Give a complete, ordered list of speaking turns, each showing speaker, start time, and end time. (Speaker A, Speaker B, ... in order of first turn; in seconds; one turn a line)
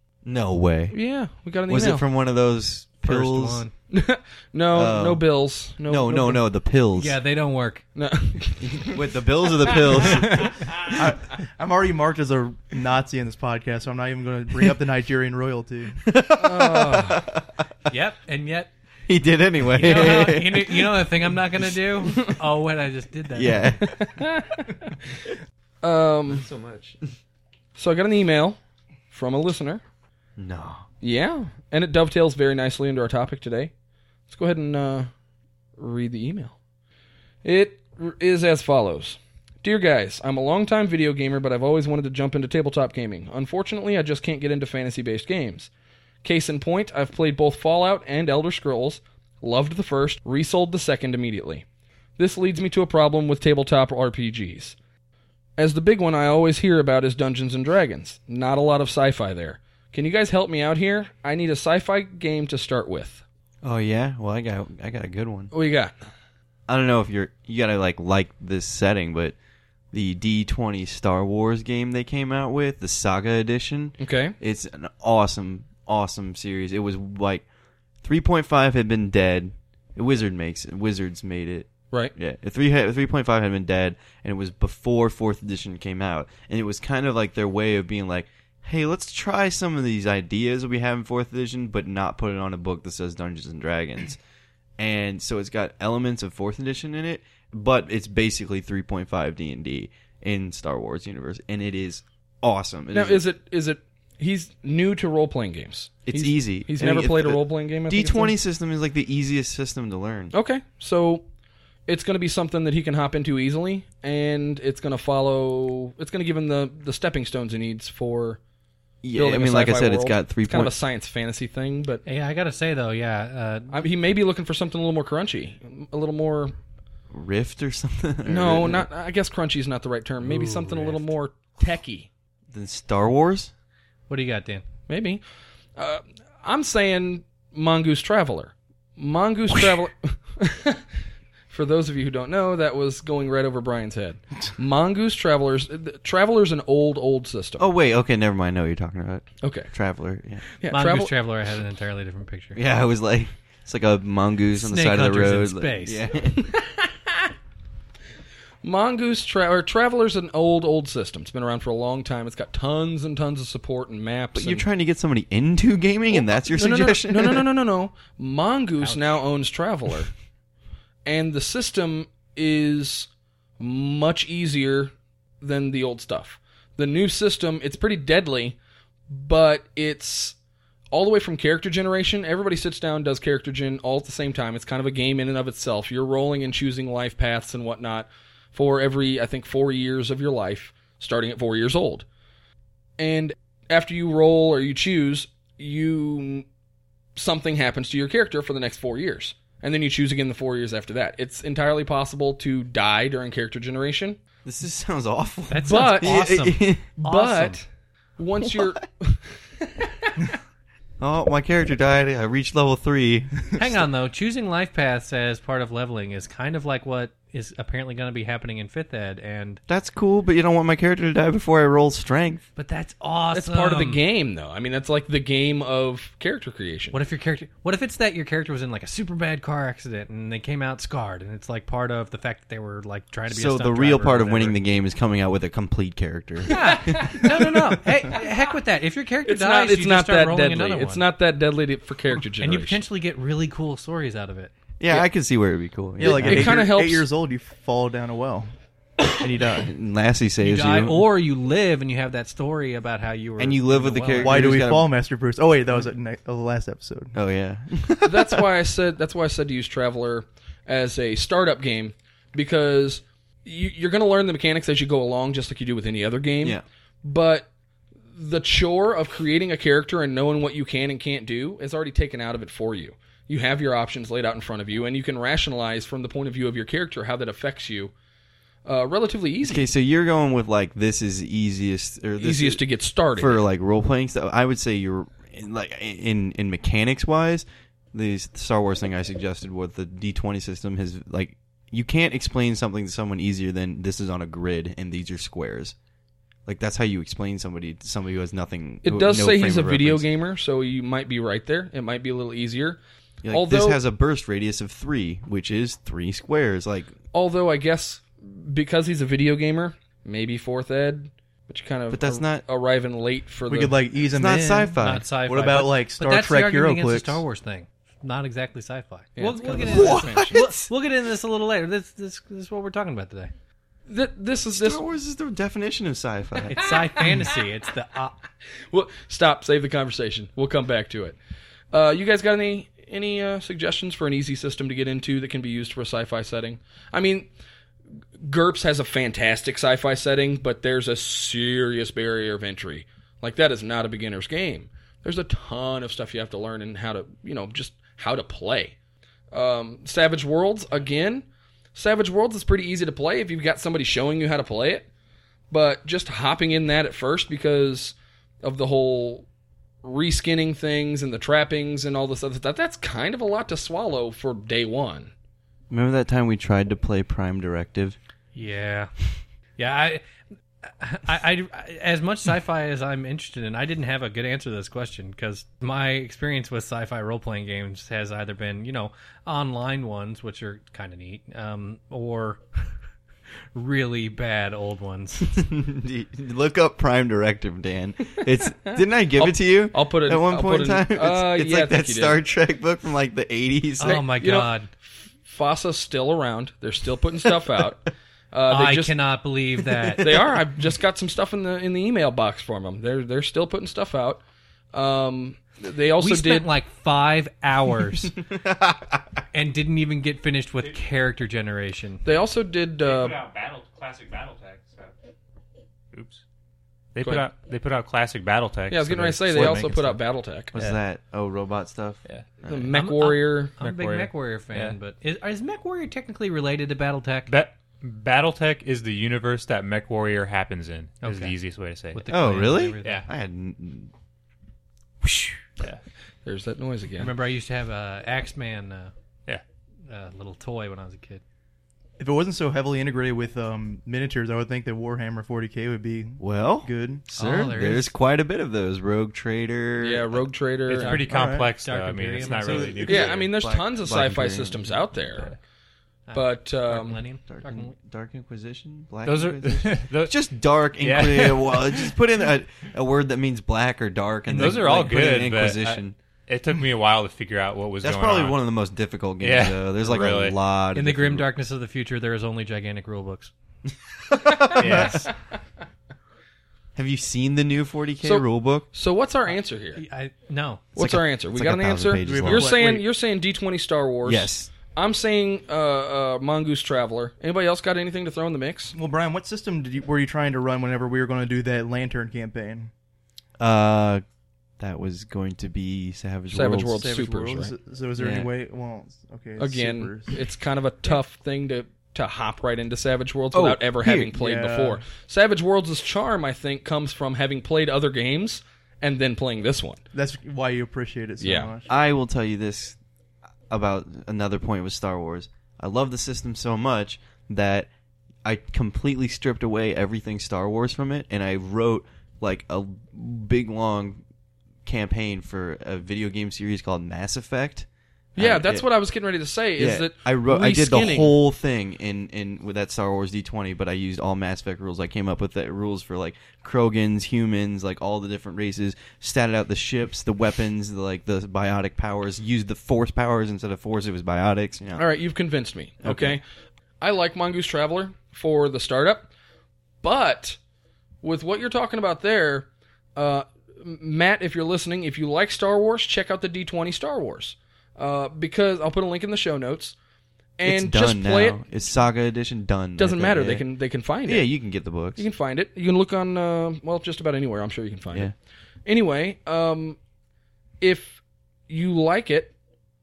Speaker A: 0.2-0.9
Speaker B: 0.9-2.0
Speaker A: 1.7-3.7
Speaker C: 3.0-3.7
Speaker B: 3.9-6.4
Speaker A: 4.7-5.2
Speaker A: 5.9-7.2
Speaker C: 7.0-7.8
Speaker B: 8.0-9.1
Speaker A: 8.8-10.7
Speaker B: 9.6-10.6
Speaker D: 10.8-16.0
Speaker A: 16.0-17.6
Speaker B: 16.4-17.2
Speaker C: 17.9-18.7
Speaker A: 19.1-20.9
Speaker C: 19.7-23.8
Speaker A: 23.3-24.1
Speaker B: 23.9-24.7
Speaker B: 25.8-26.5
Speaker A: 26.3-27.0
Speaker B: 27.7-28.6
Speaker B: 29.1-29.8
Speaker A: 30.4-30.8
Speaker B: 31.0-33.7
Speaker B: 34.3-35.1
Speaker B: 35.8-36.5
Speaker B: 37.4-45.7
Speaker B: 46.2-51.6
Speaker B: 52.2-54.8
Speaker B: 55.6-63.2
Speaker A: 63.6-65.5
Speaker B: 65.5-65.9
Speaker A: 66.7-69.3
Speaker A: 69.9-77.4
Speaker B: 74.0-74.3
Speaker A: 78.0-94.2
Speaker A: 94.8-103.2
Speaker B: 102.9-108.3
Speaker A: 106.0-110.3
Speaker B: 110.3-111.2
Speaker B: 111.9-118.4
Speaker A: 119.0-120.7
Speaker B: 119.1-122.0
Speaker C: 122.0-123.8
Speaker B: 123.7-126.5
Speaker A: 127.1-128.8
Speaker B: 128.2-132.1
Speaker C: 130.2-131.1
Speaker A: 132.5-133.5
Speaker C: 134.1-134.6
Speaker B: 134.9-135.2
Speaker B: 135.8-140.8
Speaker B: 141.5-147.7
Speaker A: 147.6-150.5
Speaker B: 149.4-149.7
Speaker B: 150.6-151.1
Speaker C: 150.7-152.6
Speaker A: 152.5-156.5
Speaker C: 154.5-156.0
Speaker B: 156.5-157.3
Speaker B: 158.6-164.6
Speaker A: 164.3-167.4
Speaker B: 166.1-170.1
Speaker C: 168.8-169.1
Speaker B: 171.0-178.6
Speaker B: 179.1-180.3
Speaker B: 180.9-192.1
Speaker B: 193.0-196.5
Speaker B: 197.1-204.2
Speaker A: 204.4-206.9
Speaker C: 205.5-207.6
Speaker B: 205.7-206.1
Speaker B: 207.0-207.6
Speaker B: 208.2-209.2
Speaker A: 211.0-213.6
Speaker C: 213.6-219.6
Speaker A: 219.7-222.4
Speaker C: 222.6-224.0
Speaker B: 223.3-226.9
Speaker C: 226.9-234.6
Speaker A: 233.3-237.6
Speaker C: 236.5-241.1
Speaker B: 236.6-237.2
Speaker B: 239.2-242.8
Speaker C: 242.4-244.5
Speaker A: 244.8-246.6
Speaker D: 246.0-248.5
Speaker B: 246.0-247.1
Speaker A: 249.1-251.1
Speaker C: 250.4-254.6
Speaker A: 253.4-254.9
Speaker D: 254.2-257.1
Speaker A: 257.1-258.4
Speaker B: 258.0-267.5
Speaker B: 268.1-277.9
Speaker B: 278.6-279.7
Speaker A: 279.4-282.6
Speaker B: 282.2-283.4
Speaker A: 283.2-295.7
Speaker A: 296.4-300.0
Speaker B: 298.8-303.8
Speaker A: 303.2-306.9
Speaker B: 307.1-313.8
Speaker A: 311.9-312.4
Speaker D: 313.5-317.2
Speaker A: 314.1-315.1
Speaker C: 314.8-323.3
Speaker B: 319.2-320.4
Speaker A: 319.5-320.7
Speaker B: 323.9-324.8
Speaker A: 324.5-326.7
Speaker C: 326.5-328.1
Speaker B: 328.7-331.2
Speaker B: 331.7-337.3
Speaker B: 338.2-348.8
Speaker B: 349.3-354.9
Speaker B: 355.5-359.3
Speaker B: 359.8-365.1
Speaker A: 365.7-368.0
Speaker C: 368.3-368.9
Speaker C: 369.6-370.1
Speaker C: 370.6-382.6
Speaker C: 383.5-385.3
Speaker A: 385.2-394.1
Speaker B: 389.1-392.2
Speaker C: 393.8-394.7
Speaker B: 393.8-398.9
Speaker C: 398.5-400.1
Speaker A: 399.8-400.1
Speaker B: 400.0-406.5
Speaker C: 406.0-408.1
Speaker A: 408.3-409.0
Speaker C: 409.3-412.0
Speaker B: 412.0-413.2
Speaker E: 412.8-414.9
Speaker E: 415.9-416.2
Speaker E: 416.9-420.0
Speaker B: 418.7-420.5
Speaker A: 419.3-419.6
Speaker A: 420.5-422.7
Speaker B: 422.4-423.5
Speaker C: 422.7-427.3
Speaker E: 423.6-424.8
Speaker E: 427.3-432.0
Speaker C: 431.0-431.4
Speaker C: 431.9-433.1
Speaker A: 432.1-433.9
Speaker A: 435.0-435.4
Speaker B: 436.2-437.1
Speaker C: 437.0-438.9
Speaker C: 439.9-441.2
Speaker D: 442.0-447.0
Speaker A: 446.2-450.2
Speaker C: 447.1-447.9
Speaker B: 449.8-451.0
Speaker E: 450.7-453.2
Speaker D: 450.9-451.5
Speaker C: 451.2-452.9
Speaker D: 452.2-452.9
Speaker A: 452.9-454.8
Speaker B: 452.9-455.3
Speaker C: 456.1-457.7
Speaker B: 456.1-457.0
Speaker A: 457.2-465.9
Speaker E: 459.0-460.1
Speaker E: 460.8-461.9
Speaker C: 464.3-464.7
Speaker E: 464.3-468.4
Speaker A: 467.8-471.3
Speaker E: 469.2-470.4
Speaker C: 470.7-473.3
Speaker A: 474.1-475.1
Speaker E: 474.6-475.1
Speaker A: 476.8-478.7
Speaker B: 478.0-479.8
Speaker C: 479.7-480.7
Speaker B: 480.8-488.8
Speaker A: 480.8-482.7
Speaker D: 482.0-482.8
Speaker A: 484.0-484.5
Speaker D: 488.7-492.7
Speaker A: 493.4-494.0
Speaker A: 494.6-496.9
Speaker B: 496.3-497.5
Speaker D: 496.8-500.2
Speaker A: 498.0-498.3
Speaker B: 499.4-509.8
Speaker A: 503.3-504.1
Speaker D: 504.1-504.8
Speaker D: 509.9-511.7
Speaker B: 511.2-511.5
Speaker A: 511.7-512.8
Speaker A: 513.5-517.7
Speaker A: 518.2-524.0
Speaker A: 524.6-528.6
Speaker B: 528.1-531.1
Speaker A: 529.6-544.8
Speaker B: 544.8-546.2
Speaker A: 545.8-546.2
Speaker B: 546.8-549.1
Speaker B: 549.8-550.4
Speaker B: 551.0-559.8
Speaker B: 560.4-561.4
Speaker A: 560.4-563.4
Speaker B: 562.8-564.3
Speaker A: 564.0-565.0
Speaker B: 565.0-568.1
Speaker B: 568.6-569.8
Speaker B: 570.6-572.3